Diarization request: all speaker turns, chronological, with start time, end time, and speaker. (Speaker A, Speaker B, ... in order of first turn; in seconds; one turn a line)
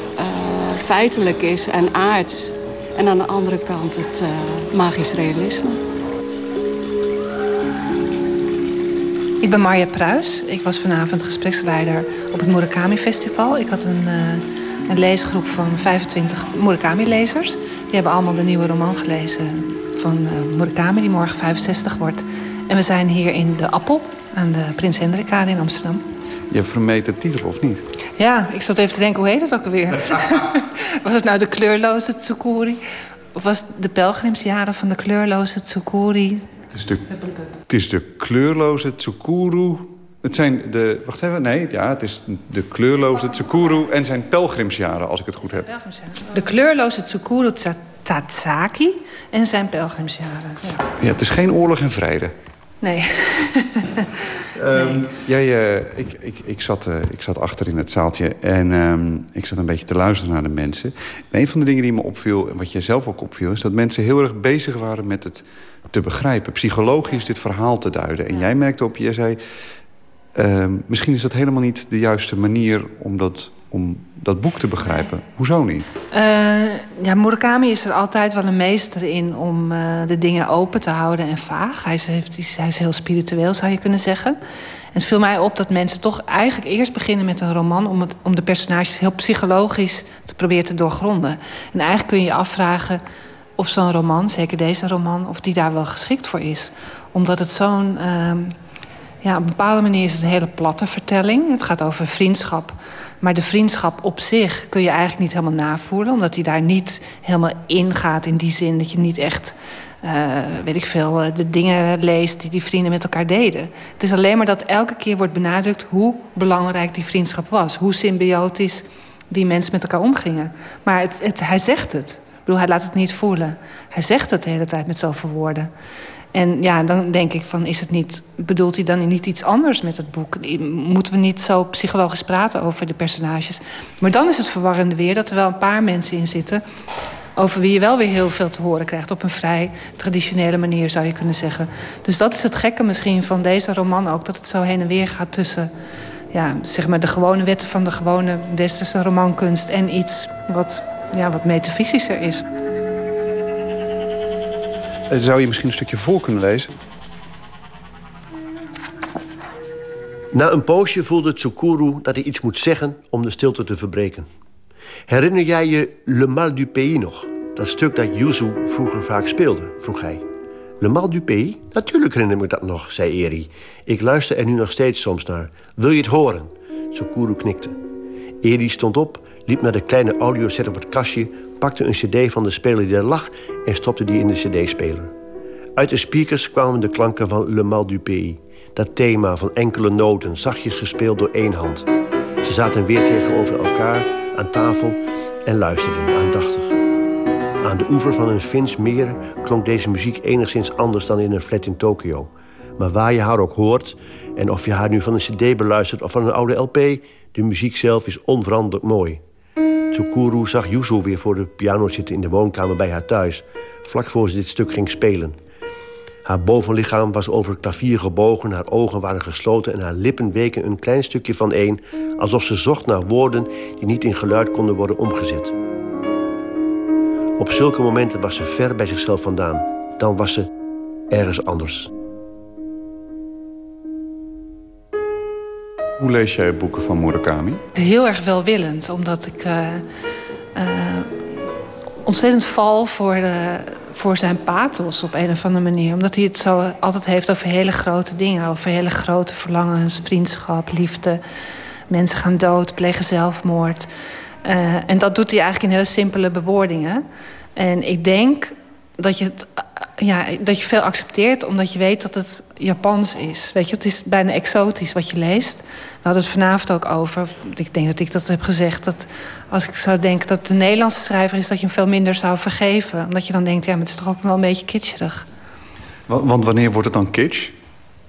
Speaker A: 0.2-5.8
Speaker B: 9.4-26.0
Speaker C: 26.5-27.8
Speaker B: 28.2-32.8
Speaker B: 33.3-36.5
Speaker C: 36.7-37.1
Speaker C: 37.7-45.7
Speaker B: 45.7-50.6
Speaker C: 51.0-52.3
Speaker B: 52.8-54.0
Speaker C: 54.6-69.4
Speaker C: 70.3-75.9
Speaker B: 76.1-84.4
Speaker B: 84.9-93.0
Speaker B: 93.6-98.5
Speaker B: 99.2-125.7
Speaker B: 126.3-136.6
Speaker B: 137.3-145.7
Speaker B: 146.3-152.4
Speaker C: 155.1-156.7
Speaker D: 160.3-164.3
Speaker D: 165.1-170.2
Speaker D: 170.8-177.8
Speaker D: 178.4-185.1
Speaker D: 185.8-191.9
Speaker D: 192.4-196.7
Speaker D: 197.6-209.2
Speaker D: 209.9-215.4
Speaker D: 216.2-225.5
Speaker D: 227.4-230.5
Speaker D: 231.1-231.9
Speaker C: 236.0-237.6
Speaker B: 237.7-239.8
Speaker B: 240.6-241.1
Speaker B: 242.1-251.2
Speaker B: 251.9-253.9
Speaker B: 254.4-257.0
Speaker B: 257.6-275.2
Speaker C: 276.1-277.5